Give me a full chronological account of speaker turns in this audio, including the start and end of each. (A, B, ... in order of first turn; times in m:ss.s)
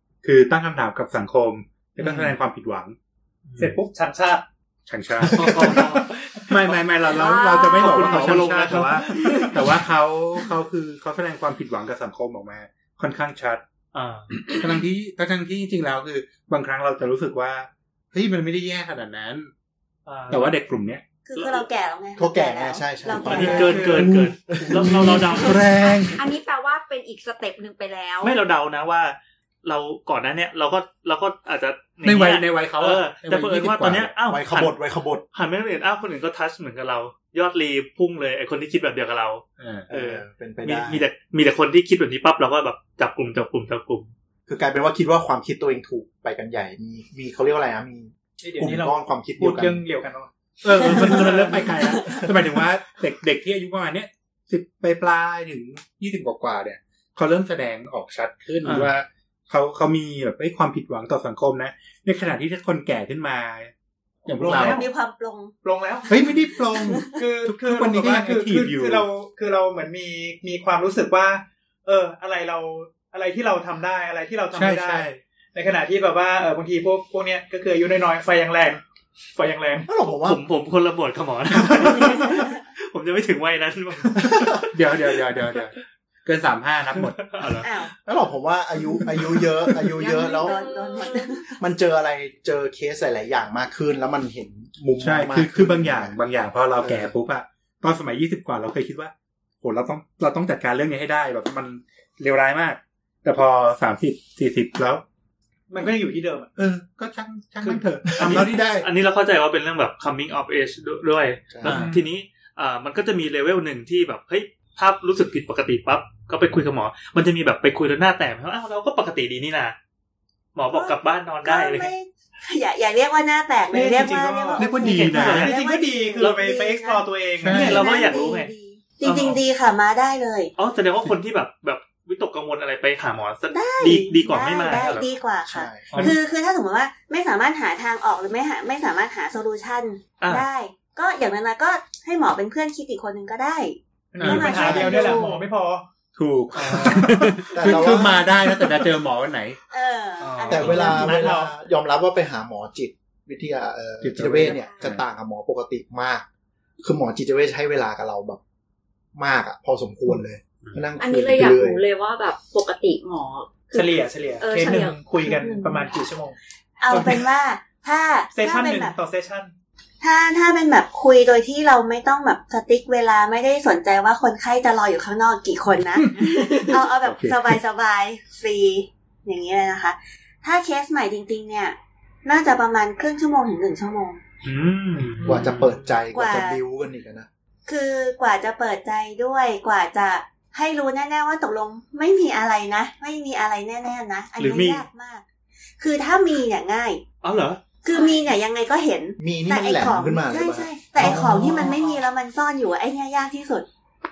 0:00.2-0:03.0 A
0:02.0-0:02.3 B
0:03.5-0:03.7 C
0:03.6-0:04.4 D
0:04.9-0:05.8 A
0:05.4-0:06.1 C
0:05.5-0:06.0 D
0:06.5-0:13.6 A
0:06.6-0:09.6 C
0:07.1-0:08.5 E
0:13.9-0:14.4 C
0:14.5-0:19.5 A
0:20.1-0:20.6 C
0:20.3-0:21.0 A
0:21.2-0:24.0 F
0:21.4-0:21.7 C
0:22.2-0:26.0 B
0:23.2-0:25.7 C
0:23.3-0:24.1 D
0:24.7-0:26.2 A
0:26.1-0:28.4 E
0:28.2-0:34.8 C
0:32.0-0:34.2 A
0:34.3-0:35.2 B
0:35.3-0:44.1 C
0:39.6-0:39.9 A
0:39.9-0:41.0 B
0:44.5-0:49.8 B
0:48.4-0:50.3 D
0:50.6-1:03.7 A
0:51.1-0:51.4 D
0:58.6-0:58.9 C
1:04.2-1:04.8 A
1:04.3-1:04.9 D
1:04.5-1:05.5 F
1:05.6-1:06.1 D
1:06.1-1:09.1 A
1:06.7-1:07.2 F
1:07.2-1:18.8 D
1:14.5-1:15.2 A
1:19.4-1:19.9 D
1:19.9-1:20.4 B
1:20.0-1:24.6 C
1:24.7-1:25.7 A
1:26.2-1:27.2 A
1:27.0-1:27.7 C
1:27.6-1:27.9 F
1:28.1-1:30.6 B
1:29.9-1:31.5 F
1:30.3-1:31.3 E
1:31.6-1:36.2 B
1:35.0-1:45.0 A
1:36.8-1:37.1 B
1:45.7-1:46.5 D
1:46.6-1:48.9 A
1:47.6-1:59.8 C
1:48.2-1:48.5 B
1:51.5-1:51.8 B
1:51.6-1:52.0 D
2:00.6-2:01.9 C
2:00.7-2:10.5 F
2:03.7-2:07.8 D
2:04.6-2:05.5 A
2:04.7-2:05.6 C
2:07.4-2:07.8 A
2:07.5-2:08.5 C
2:09.0-2:09.4 C
2:10.6-2:15.1 C
2:13.5-2:25.4 F
2:15.4-2:16.1 B
2:20.2-2:20.5 C
2:24.1-2:25.8 D
2:24.2-2:25.0 A
2:24.4-2:25.0 B
2:26.2-2:29.6 A
2:26.6-2:28.3 B
2:26.6-2:27.6 C
2:29.7-2:31.2 F
2:30.2-2:31.2 C
2:30.5-2:36.3 B
2:30.8-2:31.5 D
2:34.0-2:35.0 A
2:34.4-2:34.8 E
2:36.8-2:38.4 B
2:39.2-2:41.8 B
2:41.0-2:45.9 E
2:43.7-2:46.4 D
2:46.8-2:49.0 F
2:46.9-2:47.3 D
2:48.3-2:49.5 D
2:50.0-3:04.2 F
2:56.2-2:57.6 A
3:04.4-3:06.0 C
3:05.3-3:07.3 B
3:06.1-3:06.6 F
3:07.7-3:15.2 F
3:14.4-3:14.8 C
3:15.8-3:17.0 F
3:17.2-3:17.6 C
3:17.8-3:23.7 F
3:17.9-3:18.3 E
3:19.2-3:21.7 B
3:21.1-3:21.4 D